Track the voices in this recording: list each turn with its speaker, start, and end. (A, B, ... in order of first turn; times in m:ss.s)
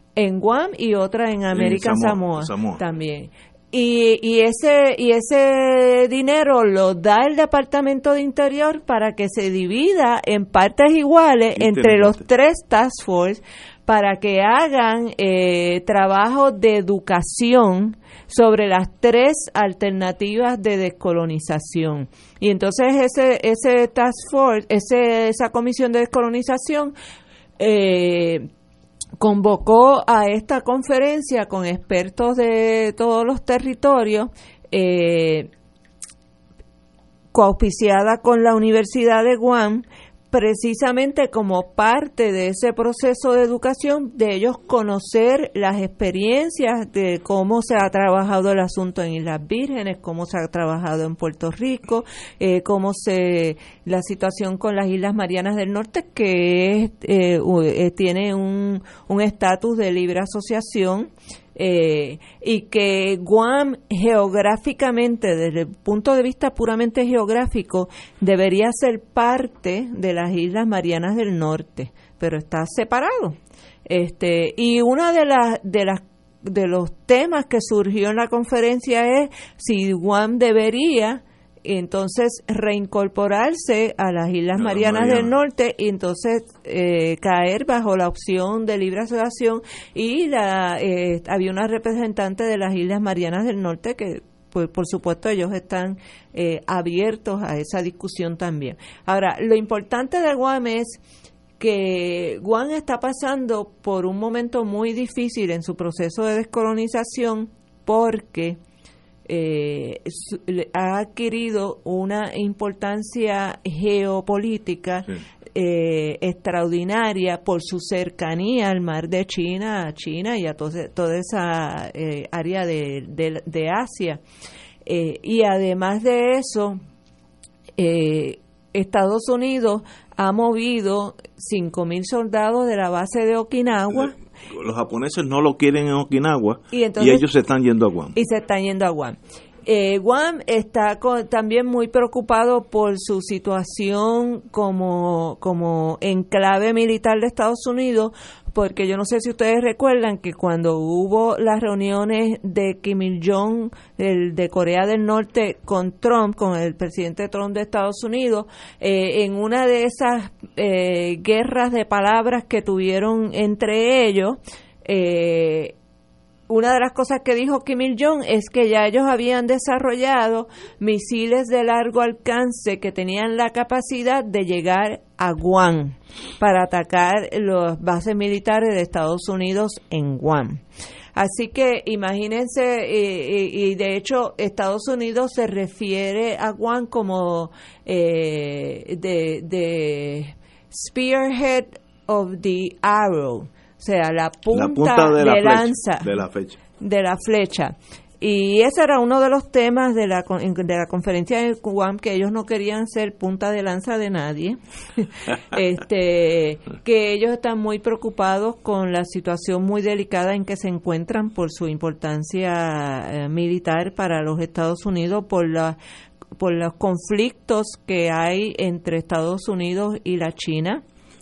0:00.2-0:26.9 A
0:01.5-0:02.8 B
0:11.6-0:12.2 B
0:27.6-0:28.4 A
0:29.2-0:35.5 A
0:37.3-1:41.0 A
1:24.6-1:25.3 B
1:41.6-1:48.6 A
1:49.2-2:04.2 A
2:04.8-2:06.8 A
2:07.8-2:14.1 A
2:14.5-2:18.1 B
2:16.7-2:17.2 A
2:18.1-2:45.7 A
2:46.5-3:00.6 A
3:01.1-3:16.1 A
3:14.5-3:16.6 B
3:16.8-3:35.8 A
3:36.4-3:40.8 A